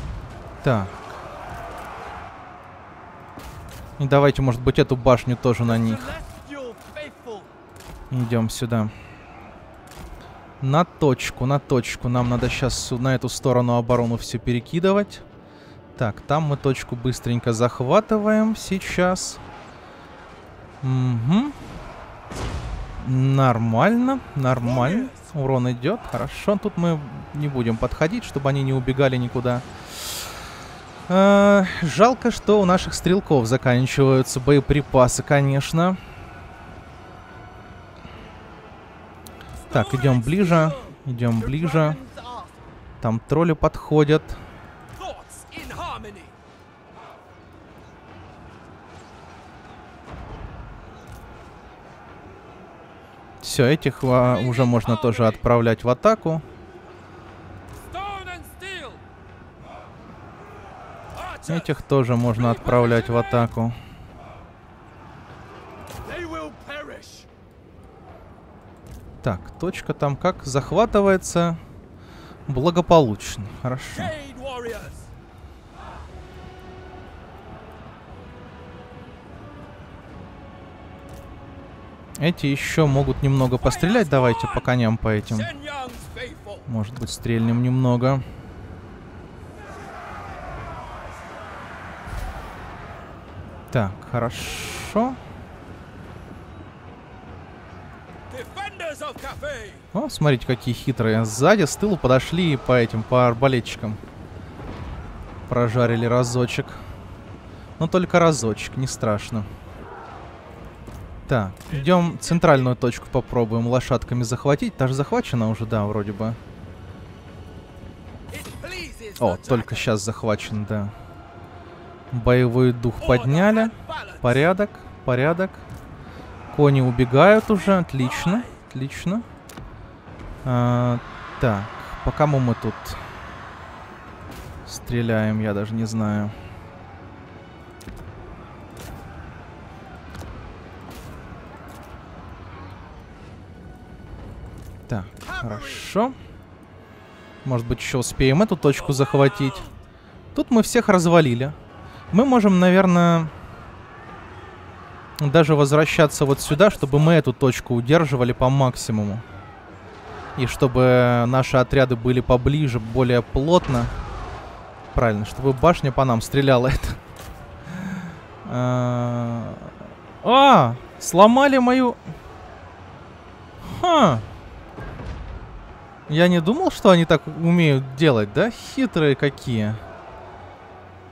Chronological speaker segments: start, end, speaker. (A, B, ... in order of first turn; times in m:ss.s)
0:00.6-0:00.9 A
0:04.0-0:06.1 A
0:05.7-0:07.5 B
0:08.1-0:08.9 A
0:10.6-0:15.2 A
0:16.0-0:19.4 A
0:20.8-0:21.6 A
0:23.0-0:30.2 A
0:24.6-0:25.2 B
0:31.1-0:36.0 A
0:39.6-0:42.5 B
0:39.7-0:42.0 A
0:43.0-0:44.4 A
0:45.0-0:46.3 B
0:53.4-0:56.4 A
0:54.2-0:55.4 B
0:57.8-0:59.0 B
1:01.1-1:01.8 B
1:01.5-1:03.8 A
1:02.3-1:03.5 B
1:06.0-1:07.3 B
1:09.2-1:11.6 A
1:12.5-1:14.1 A
1:13.9-1:15.1 B
1:22.2-1:25.5 A
1:23.6-1:24.7 B
1:25.3-1:26.6 B
1:26.7-1:28.2 A
1:33.7-1:35.2 A
1:38.3-1:39.8 B
1:39.9-1:44.0 A
1:45.5-1:46.8 A
1:47.8-1:49.5 A
1:51.3-1:56.4 A
1:51.7-1:52.7 B
1:58.3-1:59.9 B
1:59.2-2:00.9 A
2:02.1-2:05.6 A
2:03.0-2:04.4 B
2:06.5-2:09.2 A
2:07.5-2:08.6 B
2:10.4-2:13.0 A
2:14.6-2:16.4 A
2:24.9-2:26.2 A
2:25.2-2:25.9 B
2:27.4-2:29.7 A
2:28.9-2:29.7 B
2:30.3-2:31.6 A
2:32.1-2:33.3 A
2:35.2-2:39.2 A
2:36.5-2:37.2 B
2:40.4-2:43.9 A
2:44.9-2:47.0 A
2:47.8-2:49.7 A
2:50.2-2:52.0 A
2:53.6-2:54.2 A
2:56.1-2:59.8 A